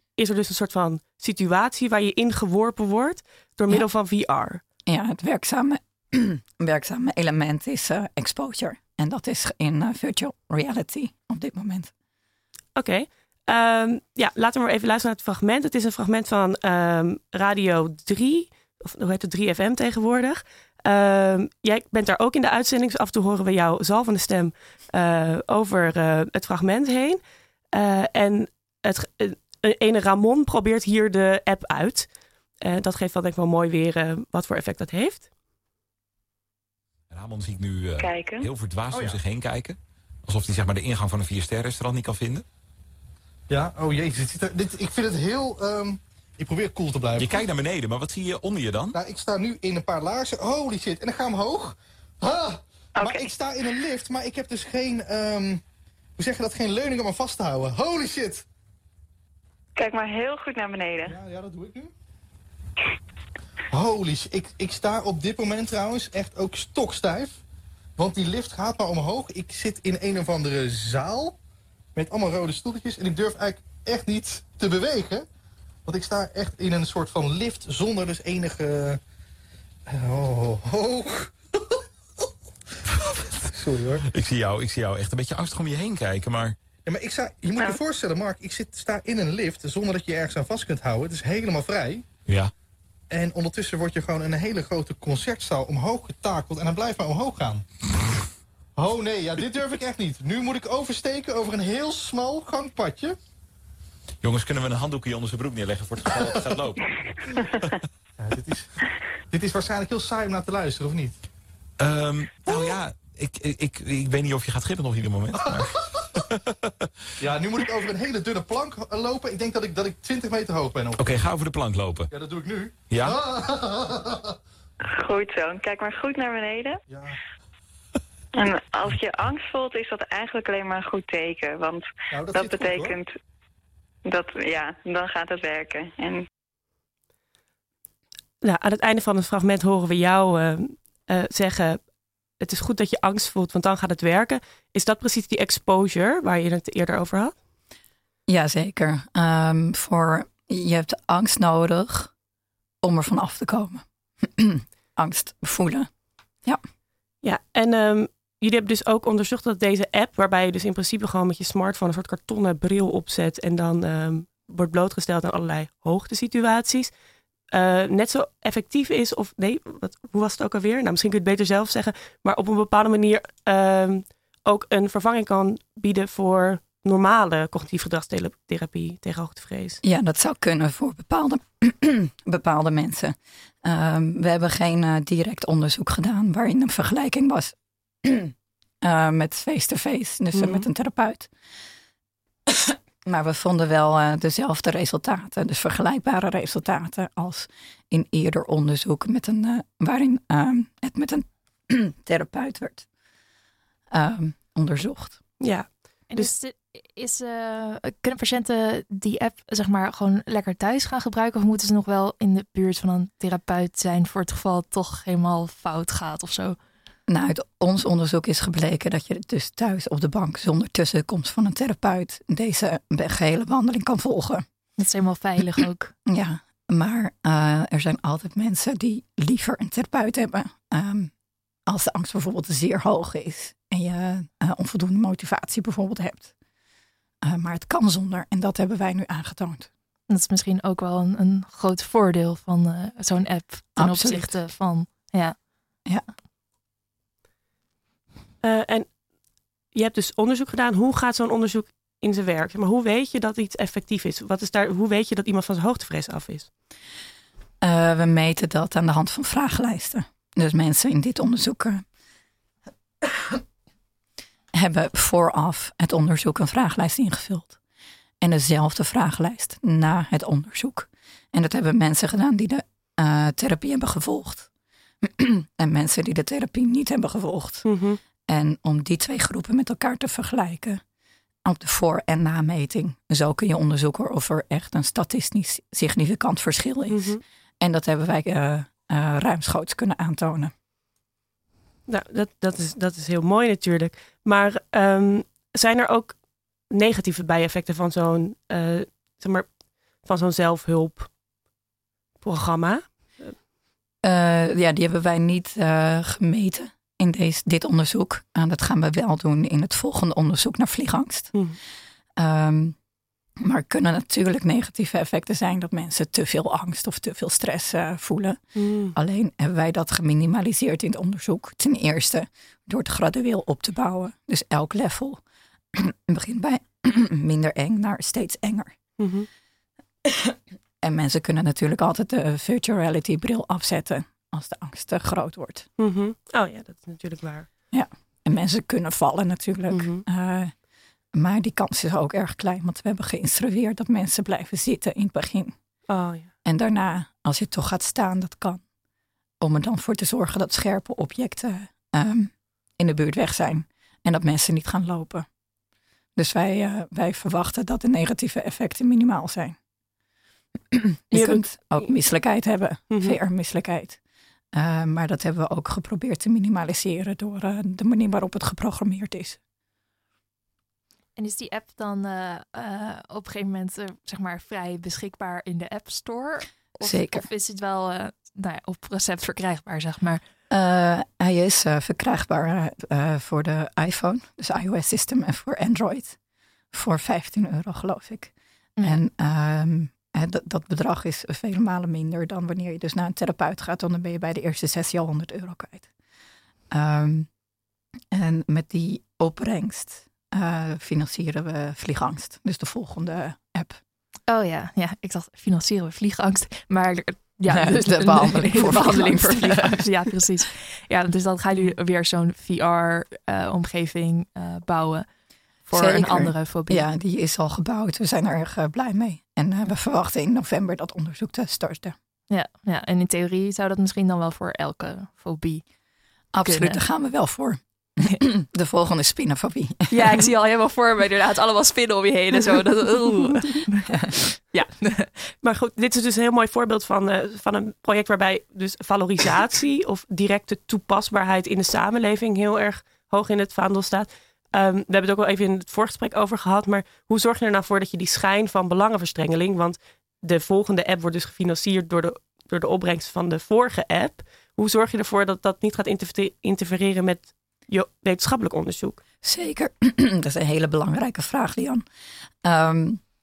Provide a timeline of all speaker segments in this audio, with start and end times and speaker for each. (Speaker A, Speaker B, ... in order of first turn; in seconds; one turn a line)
Speaker A: 0.1-4.6
Speaker B: 4.8-11.9
Speaker A: 12.8-27.2
Speaker A: 27.7-32.1
Speaker A: 32.6-35.3
Speaker C: 37.1-42.4
Speaker D: 38.0-38.5
Speaker E: 38.9-39.2
Speaker E: 43.5-47.5
Speaker C: 47.2-49.0
Speaker E: 48.9-55.6
Speaker D: 53.0-53.3
Speaker E: 56.2-58.4
Speaker D: 59.8-61.1
Speaker E: 61.1-61.9
Speaker E: 63.7-67.4
Speaker E: 68.0-71.3
Speaker E: 71.9-75.2
Speaker E: 75.8-79.0
Speaker E: 79.9-81.8
Speaker E: 83.5-84.0
Speaker C: 84.0-86.5
Speaker E: 86.8-92.0
Speaker C: 92.2-92.5
Speaker E: 93.1-97.6
Speaker E: 98.8-103.2
Speaker C: 104.2-106.8
Speaker E: 108.2-108.7
Speaker E: 109.3-111.1
Speaker C: 111.8-116.7
Speaker E: 112.5-112.8
Speaker E: 115.4-116.0
Speaker E: 117.2-121.0
Speaker C: 121.0-122.1
Speaker E: 122.1-124.3
Speaker C: 122.9-123.2
Speaker D: 124.9-126.8
Speaker E: 126.9-127.2
Speaker D: 128.3-133.1
Speaker E: 132.1-133.0
Speaker D: 134.1-136.2
Speaker A: 138.4-147.3
Speaker B: 148.3-152.1
Speaker B: 152.8-155.9
Speaker A: 157.2-166.9
Speaker A: 167.5-179.8
Speaker B: 179.8-191.3
Speaker A: 190.3-190.7
Speaker B: 192.5-202.9
Speaker B: 203.9-205.2
Speaker A: 205.4-206.3
Speaker F: 206.1-216.6
Speaker B: 217.1-224.4
Speaker F: 224.8-225.9
Speaker B: 226.1-231.1
Speaker B: 231.7-236.3
Speaker B: 237.2-239.7
Speaker F: 240.1-245.3
Speaker B: 243.8-244.3
Speaker A: 248.4-249.0
Speaker A: 249.7-256.5
Speaker B: 257.6-261.8
Speaker B: 263.0-263.4
Speaker B: 264.5-267.6
Speaker B: 268.2-274.5
Speaker B: 275.0-277.6
Speaker A: 277.6-278.0
Speaker B: 278.3-280.8
Speaker B: 281.4-290.5
Speaker A: 286.9-287.2
Speaker A: 291.9-301.1
Speaker A: 302.2-303.3
Speaker B: 304.0-311.4
Speaker B: 312.2-312.8
Speaker B: 313.4-325.2
Speaker A: 318.6-318.9
Speaker B: 325.7-328.7
Speaker A: 329.0-329.3
Speaker B: 330.1-335.7
Speaker A: 335.8-337.5
Speaker B: 337.7-340.5
Speaker A: 339.7-340.0
Speaker B: 341.1-345.6
Speaker A: 345.9-346.3
Speaker B: 346.4-348.6
Speaker B: 349.4-355.3
Speaker B: 356.1-359.6
Speaker B: 360.7-364.0
Speaker A: 361.1-361.9
Speaker A: 362.9-363.2
Speaker B: 364.5-369.4
Speaker F: 371.2-380.2
Speaker B: 376.8-377.2
Speaker B: 380.5-386.2
Speaker B: 386.7-395.9
Speaker B: 396.7-397.3
Speaker B: 398.1-403.8
Speaker F: 404.3-415.1
Speaker B: 407.5-409.8
Speaker F: 415.6-416.9
Speaker B: 415.7-421.9
Speaker F: 422.3-425.6
Speaker B: 426.3-430.1
Speaker F: 426.4-426.8
Speaker F: 429.9-433.8
Speaker B: 433.9-434.7
Speaker F: 434.8-435.1
Speaker A: 435.4-459.0
Speaker B: 459.2-461.8
Speaker B: 462.4-463.0